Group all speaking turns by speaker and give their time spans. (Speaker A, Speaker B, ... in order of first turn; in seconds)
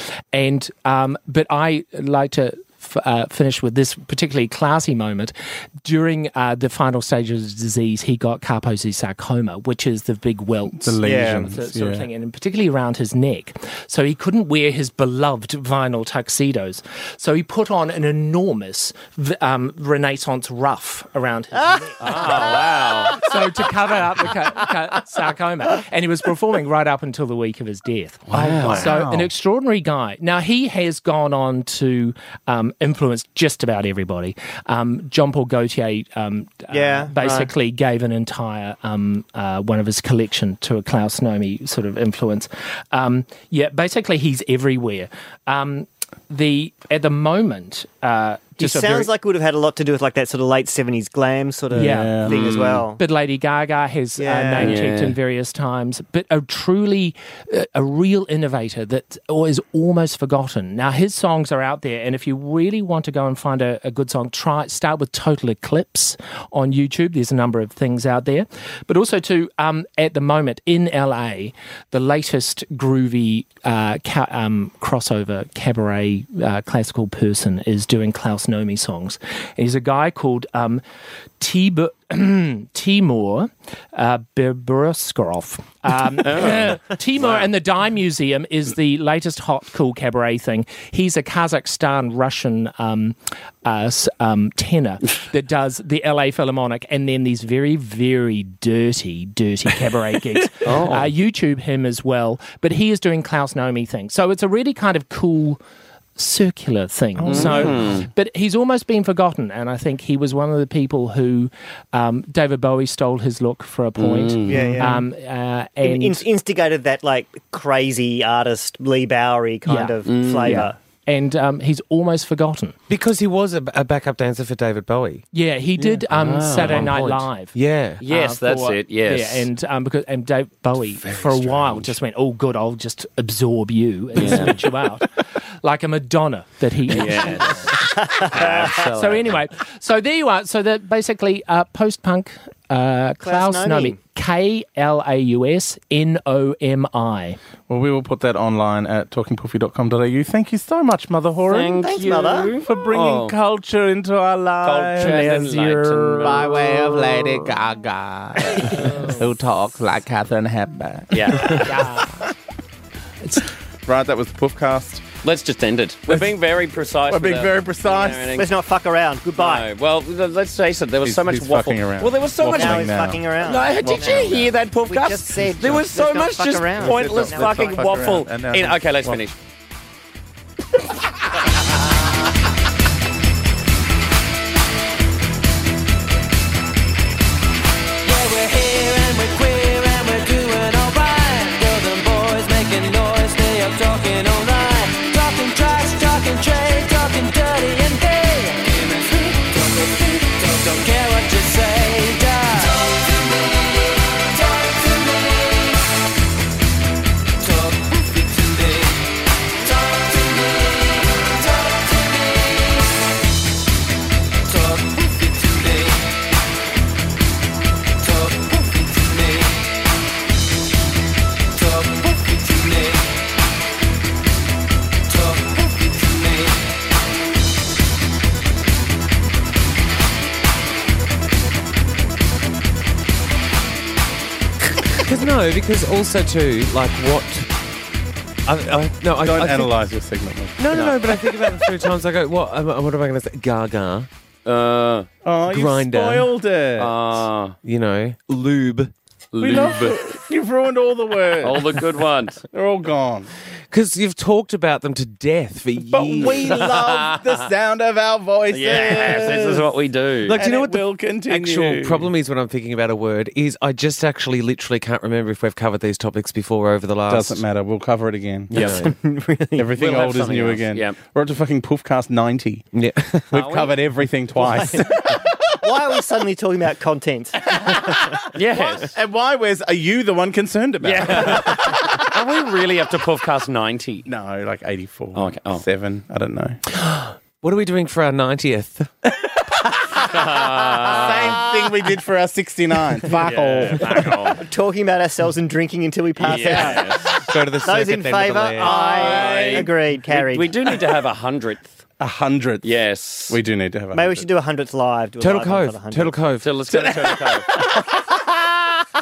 Speaker A: 0.3-49.1, 51.7-80.8, 81.4-105.6, 106.2-116.2, 119.7-122.8, 125.3-135.1, 135.6-147.4, 158.6-159.1, 161.6-162.3
Speaker B: 10.7-12.1, 28.3-29.3, 51.7-52.5, 107.2-108.0, 114.5-115.0, 131.0-131.9, 147.7-151.9, 152.6-161.7, 163.8-165.1, 167.1-168.4, 171.0-173.2, 173.8-174.5, 176.8-179.2, 239.2-240.6, 245.2-246.9, 249.4-251.9, 252.5-253.3, 255.8-259.7, 260.3-262.1, 267.1-268.5, 269.6-272.7, 273.3-275.3, 277.5-281.9, 284.0-286.6, 289.4-294.4, 298.9-299.7, 302.0-302.7, 303.3-304.3, 306.7-308.4
Speaker C: 11.0-11.5, 36.7-37.5, 48.6-53.0, 54.2-54.8, 114.5-115.0, 115.8-120.8, 137.8-139.2, 143.2-144.0, 151.8-152.6, 168.4-169.7, 172.5-178.2, 268.6-269.7, 274.4-277.9, 294.3-300.7, 303.9-306.2
Speaker D: 22.0-23.1, 28.3-28.9, 52.3-52.8, 54.6-55.1, 86.2-87.5, 100.6-101.1, 107.3-108.1, 114.0-114.8, 120.0-120.7, 128.0-129.5, 134.1-134.5, 136.9-139.3, 151.4-153.4, 154.6-157.3, 161.1-161.9, 165.2-168.5, 169.3-179.3, 240.7-241.3, 244.4-245.1, 246.8-247.6, 249.3-250.0, 251.4-252.4, 256.2-257.3, 258.5-260.4, 268.5-268.8, 269.8-271.0, 273.3-273.7, 278.3-278.9, 280.8-284.1, 285.1-285.6, 289.9-291.4, 293.1-294.4, 296.2-297.2, 298.6-301.8, 302.6-303.4, 306.4-307.5
Speaker E: 122.9-125.2, 125.9-128.0, 235.0-237.5, 238.4-239.7, 240.6-244.1, 245.5-246.3, 247.6-248.9, 249.4-249.8, 253.7-256.6, 260.3-267.4, 268.5-268.9, 272.7-273.5, 286.7-288.9, 297.2-298.9, 305.2-306.6
Speaker F: 188.0-205.8, 207.4-212.9, 214.4-216.3, 218.0-219.7, 221.5-223.4, 225.1-226.8